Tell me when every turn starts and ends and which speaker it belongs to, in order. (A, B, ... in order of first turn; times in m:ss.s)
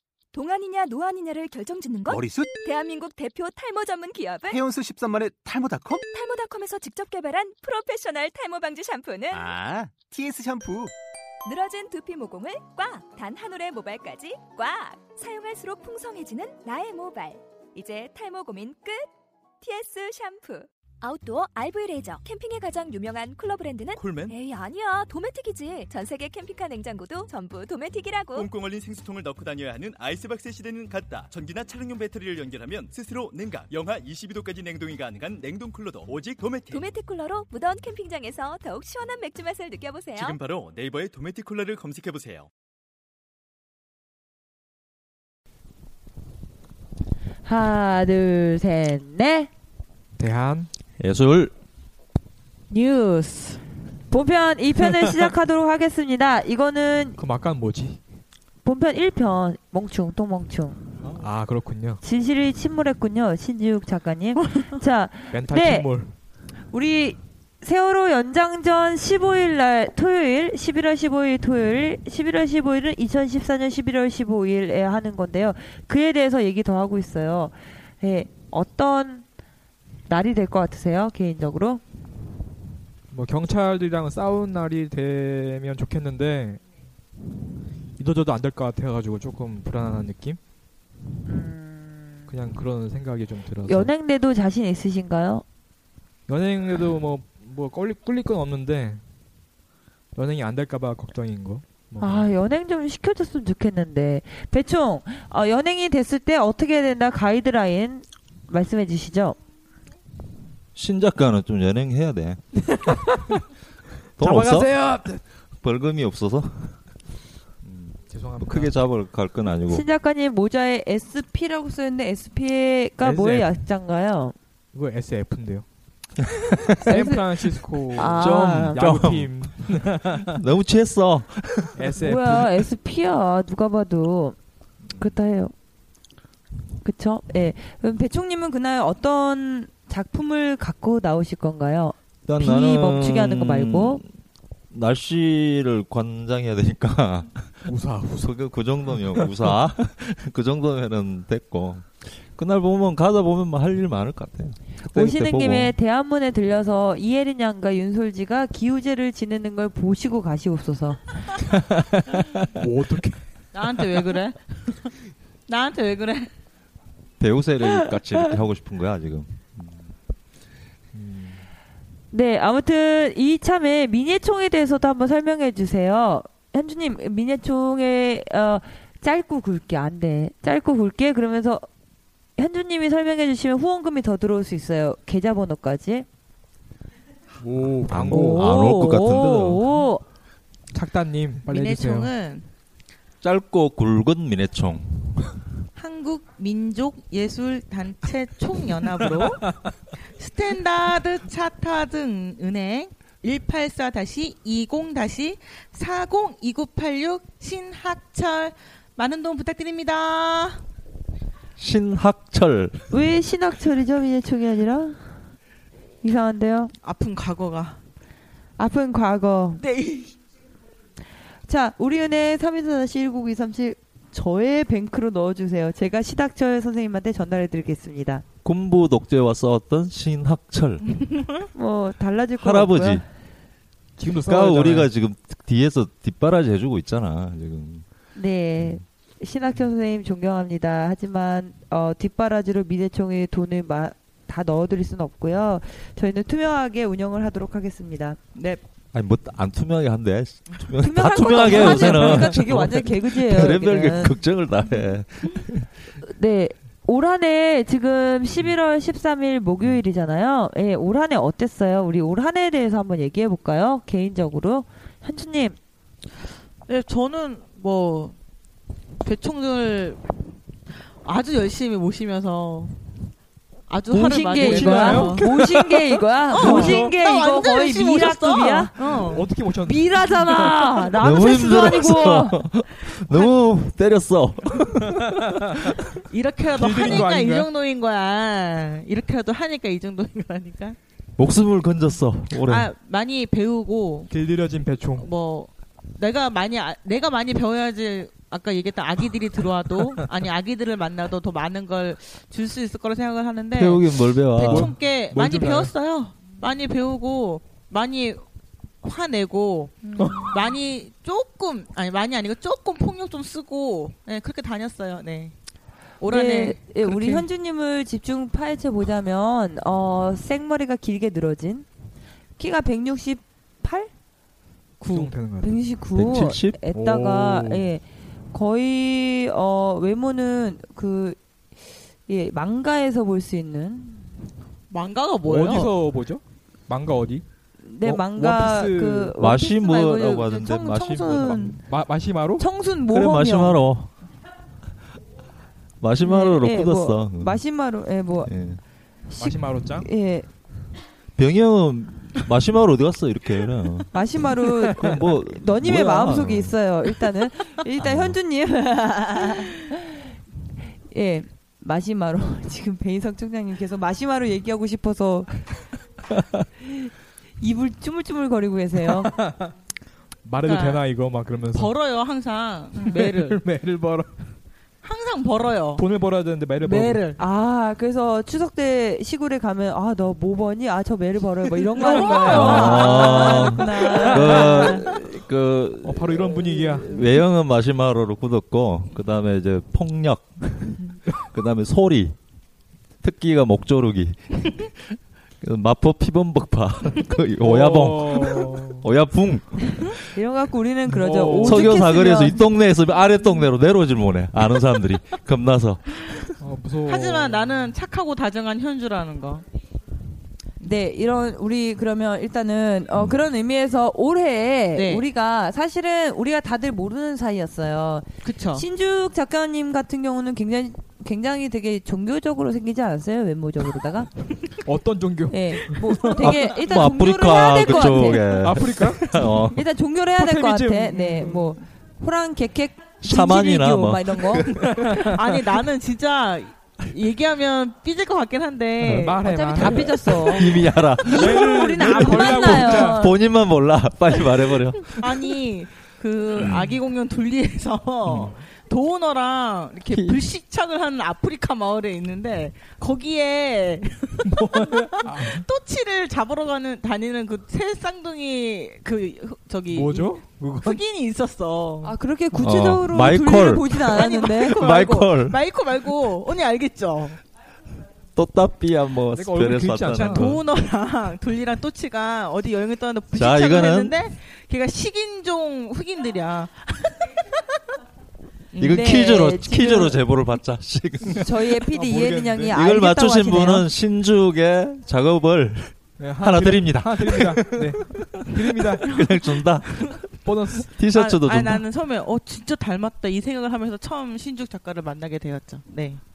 0:00.3-0:04.6 A
0:02.1-0:02.6 B
0:04.5-0:06.0 B
0:06.0-0:09.5 A
0:09.3-0:10.9 B
0:11.4-0:19.1 A
0:19.6-0:28.5 A
0:24.0-0:24.4 C
0:28.3-0:36.9 C
0:36.7-0:40.4 A
0:40.1-0:42.5 C
0:47.4-0:49.5 D
0:50.2-0:50.7 E
0:51.0-0:51.5 F
0:52.7-0:57.2 D
0:57.2-0:58.0 E
0:58.6-1:00.8 D
1:01.2-1:02.0 E
1:02.0-1:05.9 D
1:05.3-1:06.1 E
1:06.7-1:19.2 D
1:20.1-1:21.8 D
1:23.1-1:26.6 E
1:28.0-1:30.4 E
1:31.3-1:32.1 D
1:32.3-1:33.9 E
1:33.6-1:35.4 D
1:36.3-1:39.0 E
1:40.1-1:42.3 E
1:42.0-1:49.4 D
1:50.7-1:52.4 F
1:52.7-1:53.4 E
1:54.2-1:54.7 F
1:54.2-1:55.2 E
1:55.6-1:56.8 F
1:57.6-1:59.8 F
1:58.1-1:58.7 E
1:59.7-2:04.3 D
2:03.0-2:03.5 E
2:04.7-2:05.6 E
2:06.7-2:10.4 E
2:06.7-2:08.9 D
2:08.0-2:09.5 F
2:10.2-2:11.9 F
2:11.7-2:12.6 E
2:11.9-2:14.4 D
2:15.0-2:15.5 D
2:16.8-2:24.0 D
2:22.3-2:24.0 F
2:24.7-2:35.7 F
2:27.7-2:28.3 E
2:28.9-2:29.3 E
2:34.8-2:41.2 D
2:41.6-2:42.4 F
2:42.5-2:43.2 E
2:43.5-2:44.9 G
2:45.5-2:46.3 G
2:47.2-2:49.9 F
2:50.9-2:51.4 E
2:52.1-3:01.6 D
3:02.4-3:06.0 D
3:07.4-3:08.5 E
3:07.9-3:09.7 F
3:08.1-3:10.0 D
3:10.7-3:12.1 E
3:11.5-3:12.5 G
3:13.2-3:15.3 F
3:15.8-3:19.5 G
3:20.1-3:30.6 G
3:31.6-3:32.9 F
3:32.9-3:35.0 D
3:36.0-3:36.7 D
3:36.8-3:37.8 G
3:38.6-3:39.6 D
3:39.6-3:40.1 G
3:41.5-3:48.2 D
3:48.4-3:50.8 F
3:51.5-3:53.0 D
3:52.4-3:53.0 F
3:54.0-3:54.9 E
3:54.1-3:57.8 F
3:58.1-4:08.6 D
4:08.9-4:15.7 F
4:10.8-4:14.2 D
4:16.0-4:25.6 D
4:26.7-4:28.1 G
4:29.0-4:30.0 G
4:30.8-4:32.8 G
4:33.7-4:35.3 G
4:33.9-4:38.7 D
4:34.4-4:36.9 E
4:36.3-4:39.3 G
4:38.8-4:40.9 E
4:39.6-4:42.4 D
4:41.0-4:45.8 F
4:45.0-4:45.7 E
4:46.1-4:50.8 G
4:46.5-4:47.5 E
4:51.2-4:52.7 F
4:52.4-4:54.1 G
4:54.1-4:55.1 E
4:55.0-5:08.2 G
5:03.5-5:04.7 F
5:04.4-5:05.7 E
5:08.8-5:15.3 G
5:09.9-5:10.3 D
5:10.0-5:10.2 E
5:16.0-5:17.3 G
5:16.1-5:21.6 D
5:22.4-5:23.9 D
5:24.8-5:31.2 D
5:24.9-5:25.6 E
5:26.0-5:26.6 F
5:26.7-5:27.7 E
5:32.1-5:34.0 D
5:34.7-5:35.7 G
5:35.2-5:37.2 E
5:37.6-5:41.6 D
5:38.1-5:39.1 E
5:39.2-5:41.6 F
5:41.6-5:42.4 E
5:42.4-5:43.6 D
5:42.9-5:43.9 F
5:45.8-5:47.4 F
5:46.0-5:48.3 D
5:48.2-5:48.6 F
5:49.1-5:50.2 D
5:49.2-5:49.9 E
5:51.2-5:53.9 F
5:53.9-6:00.0 D
5:54.7-5:56.5 F
5:57.8-5:58.2 F
6:00.9-6:05.4 D
6:06.6-6:09.1 D
6:08.9-6:09.5 E
6:10.2-6:11.7 E
6:10.4-6:10.8 G
6:11.5-6:13.4 G
6:12.8-6:14.1 E
6:14.8-6:15.8 G
6:15.8-6:17.0 E
6:16.6-6:17.2 G
6:17.2-6:24.9 D
6:21.8-6:24.5 E
6:21.8-6:24.4 G
6:22.3-6:32.2 F
6:25.8-6:27.0 E
6:33.0-6:40.0 F
6:37.4-6:38.8 E
6:40.1-6:42.4 D
6:40.9-6:41.8 E
6:41.4-6:46.3 F
6:46.4-6:47.7 E
6:46.8-6:49.4 G
6:50.6-7:04.1 D
6:52.9-6:53.2 F
6:54.7-6:55.0 G
6:58.2-6:58.6 G
7:04.6-7:06.4 E
7:05.3-7:08.3 D
7:06.2-7:09.6 F
7:08.2-7:09.3 E
7:09.5-7:14.6 D
7:10.2-7:11.5 E
7:13.0-7:14.9 F
7:14.6-7:15.4 E
7:15.0-7:19.8 G
7:18.8-7:20.4 E
7:19.2-7:23.2 D
7:20.2-7:25.0 F
7:21.0-7:23.0 E
7:24.9-7:41.9 G
7:26.4-7:26.8 F
7:28.1-7:28.3 F
7:29.9-7:30.2 F
7:34.3-7:35.4 E
7:39.7-7:40.8 E
7:41.8-7:44.6 D
7:42.4-7:45.4 F
7:43.9-7:47.2 G
7:48.2-7:50.4 F
7:49.1-7:50.4 E
7:49.9-7:57.6 G
7:53.1-7:54.0 F
7:58.5-7:58.8 G
7:58.6-8:10.0 F
7:58.6-8:00.0 D
8:01.2-8:03.7 D
8:01.7-8:02.4 E
8:06.0-8:09.0 E
8:10.2-8:10.7 E
8:10.6-8:11.6 F
8:10.9-8:16.0 G